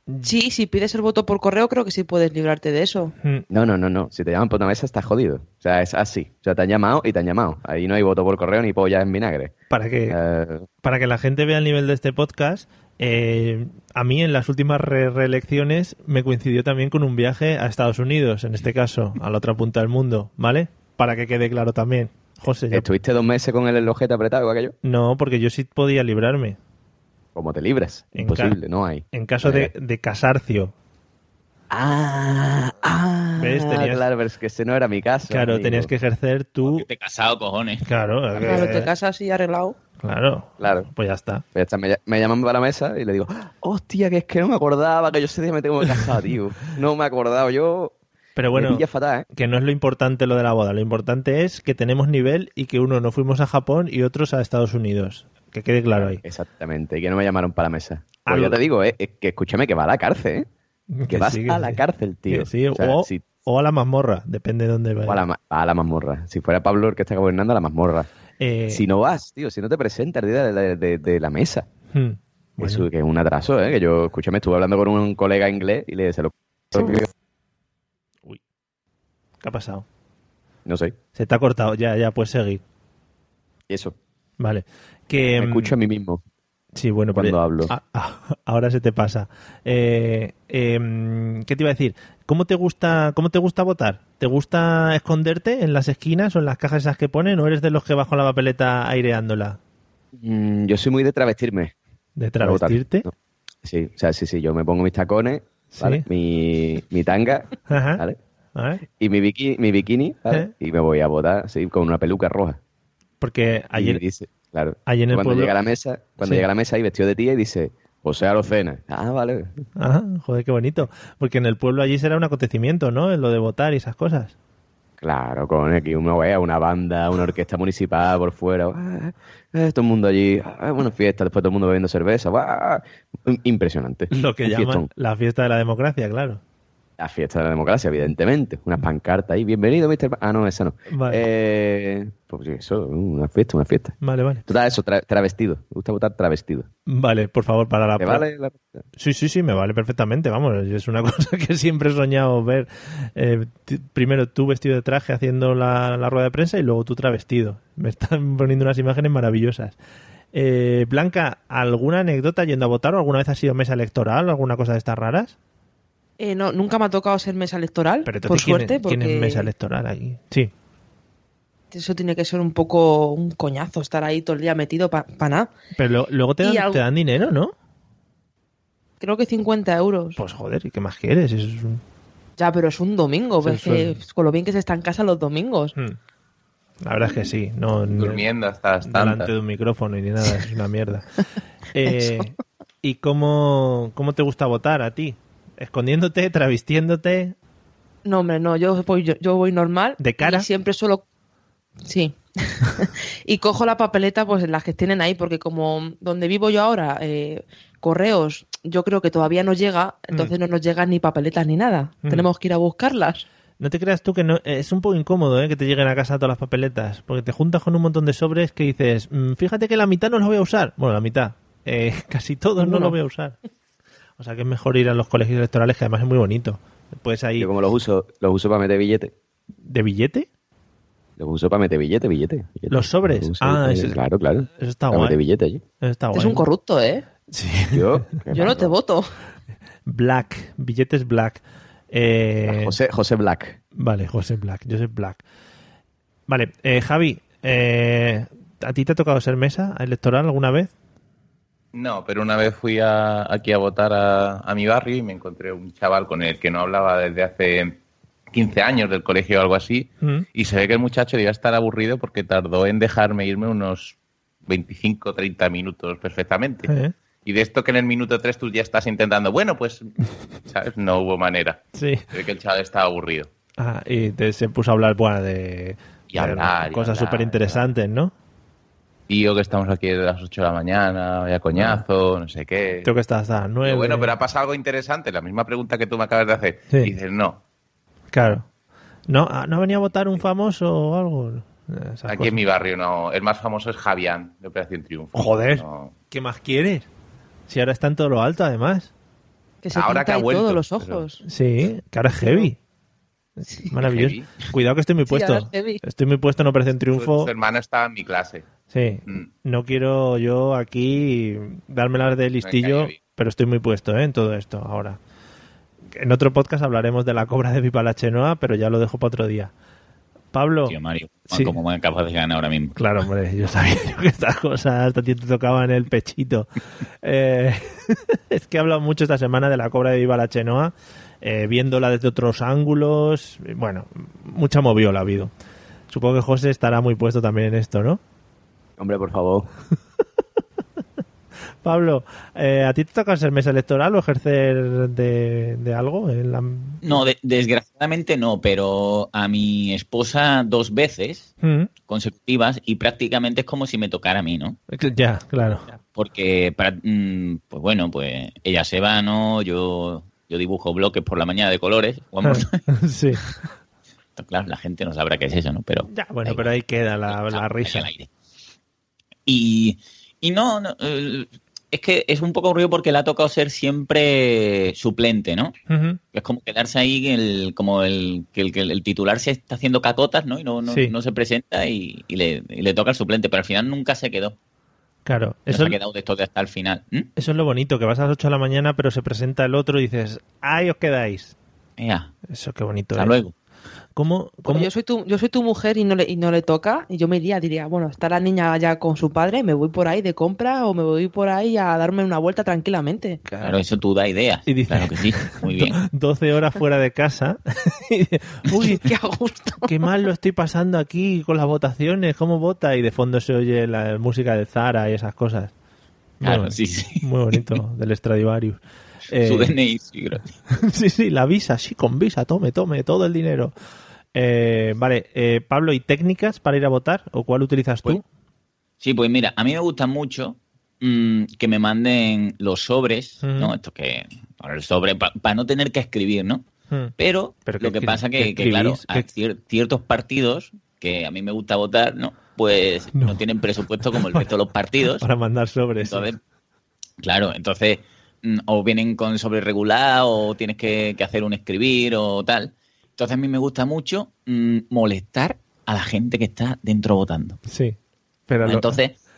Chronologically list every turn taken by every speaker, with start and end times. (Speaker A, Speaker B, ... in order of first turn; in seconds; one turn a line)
Speaker A: 0.2-3.1
Speaker B: 3.5-9.5
Speaker C: 9.7-10.2
Speaker B: 10.1-10.7
Speaker C: 10.8-22.9
Speaker B: 22.7-24.7
Speaker C: 24.8-26.6
Speaker B: 27.3-29.7
Speaker C: 28.1-28.6
Speaker C: 29.1-30.7
Speaker B: 31.7-35.9
Speaker C: 33.4-34.0
Speaker C: 35.3-36.9
Speaker D: 36.6-37.8
Speaker C: 37.8-38.9
Speaker A: 38.4-39.8
Speaker C: 40.0-41.4
Speaker B: 40.6-40.9
Speaker B: 41.5-47.9
Speaker C: 48.4-56.2
Speaker B: 48.5-49.2
Speaker B: 56.0-60.5
Speaker C: 58.2-58.6
Speaker C: 60.9-65.2
Speaker B: 61.1-63.2
Speaker B: 65.0-68.1
Speaker C: 68.4-68.8
Speaker B: 68.7-71.7
Speaker C: 71.9-72.9
Speaker B: 72.6-77.1
Speaker C: 79.4-79.8
Speaker B: 80.6-81.0
Speaker C: 81.1-82.6
Speaker B: 83.7-84.0
Speaker C: 84.4-85.7
Speaker B: 85.2-86.2
Speaker C: 86.7-99.6
Speaker B: 87.1-87.7
Speaker B: 100.2-101.7
Speaker C: 102.2-103.1
Speaker B: 102.4-103.1
Speaker B: 103.6-108.2
Speaker C: 105.7-106.0
Speaker C: 107.7-108.0
Speaker C: 108.5-108.8
Speaker B: 109.0-112.6
Speaker C: 113.2-114.0
Speaker B: 113.8-119.5
Speaker C: 114.8-115.5
Speaker C: 116.2-116.5
Speaker C: 119.8-124.3
Speaker B: 125.0-134.9
Speaker C: 134.1-136.4
Speaker B: 137.0-143.9
Speaker C: 140.9-141.2
Speaker C: 144.0-144.4
Speaker B: 144.5-146.7
Speaker C: 146.9-148.2
Speaker B: 148.0-148.8
Speaker C: 148.9-159.8
Speaker C: 160.3-165.3
Speaker A: 166.2-169.5
Speaker C: 168.0-170.5
Speaker A: 171.7-175.5
Speaker C: 175.8-177.5
Speaker A: 176.4-176.8
Speaker A: 179.0-180.2
Speaker C: 180.2-181.8
Speaker A: 182.4-185.7
Speaker C: 183.4-184.0
Speaker C: 186.8-188.2
Speaker E: 188.0-189.3
Speaker C: 188.8-191.1
Speaker C: 191.7-197.3
Speaker A: 191.9-192.2
Speaker A: 198.0-201.0
Speaker C: 200.0-200.5
Speaker A: 201.8-213.2
Speaker C: 213.6-223.3
Speaker A: 222.6-222.9
Speaker C: 224.2-227.5
Speaker B: 227.4-229.1
Speaker C: 229.6-230.3
Speaker B: 231.2-235.6
Speaker C: 232.7-235.2
Speaker C: 235.8-236.5
Speaker A: 236.1-237.0
Speaker C: 237.3-238.0
Speaker B: 237.7-238.8
Speaker A: 238.3-239.1
Speaker C: 239.8-242.7
Speaker B: 242.5-243.6
Speaker C: 243.7-245.2
Speaker C: 246.3-250.7
Speaker E: 251.7-257.8
Speaker E: 258.3-263.9
Speaker E: 264.5-266.7
Speaker C: 266.6-266.9
Speaker E: 267.2-269.9
Speaker E: 270.5-271.6
Speaker C: 271.7-272.0
Speaker E: 272.1-273.3
Speaker C: 273.6-278.1
Speaker E: 276.1-277.6
Speaker E: 279.1-282.9
Speaker C: 281.6-281.8
Speaker C: 282.8-284.1
Speaker E: 283.6-287.4
Speaker C: 288.1-288.4
Speaker C: 289.1-292.4
Speaker E: 292.1-295.9
Speaker C: 295.1-296.9
Speaker C: 297.5-298.9
Speaker A: 299.6-301.2
Speaker E: 299.7-301.0
Speaker C: 301.2-302.6
Speaker C: 303.6-307.3
Speaker E: 303.8-304.2
Speaker A: 305.1-305.8
Speaker E: 306.9-308.4
Speaker C: 308.7-315.0
Speaker E: 312.4-313.0
Speaker C: 315.9-319.5
Speaker C: 320.3-320.7
Speaker D: 320.6-322.7
Speaker C: 322.8-326.5
Speaker C: 327.0-335.3
Speaker C: 335.9-338.0
Speaker B: 338.8-339.5
Speaker C: 341.6-347.0
Speaker D: 346.8-351.3
Speaker C: 351.4-351.7
Speaker D: 351.9-354.6
Speaker C: 354.7-355.7
Speaker D: 355.9-362.6
Speaker C: 362.2-363.2
Speaker D: 364.1-366.5
Speaker C: 365.9-367.9
Speaker D: 367.1-368.1
Speaker D: 369.3-375.5
Speaker C: 375.7-376.0
Speaker D: 376.1-384.4
Speaker C: 380.6-380.9
Speaker C: 385.0-385.8
Speaker D: 385.5-387.1
Speaker C: 387.1-391.3
Speaker D: 391.8-392.1
Speaker C: 392.3-393.1
Speaker D: 392.9-393.3
Speaker C: 393.9-394.7
Speaker A: 394.4-403.2
Speaker C: 403.2-403.6
Speaker D: 403.4-405.8
Speaker C: 404.4-408.9
Speaker A: 408.5-409.7
Speaker C: 409.6-415.5
Speaker C: 416.2-419.5
Speaker D: 416.2-417.4
Speaker D: 419.2-420.3
Speaker C: 420.5-423.5
Speaker C: 424.1-428.0
Speaker D: 428.8-436.4
Speaker C: 433.2-433.5
Speaker D: 437.0-445.0
Speaker C: 437.4-439.1
Speaker C: 442.9-443.2
Speaker C: 443.9-444.3
Speaker C: 444.8-446.1
Speaker D: 445.8-446.2
Speaker D: 447.0-457.4
Speaker C: 457.5-457.8
Speaker C: 458.3-458.8
Speaker D: 458.4-458.9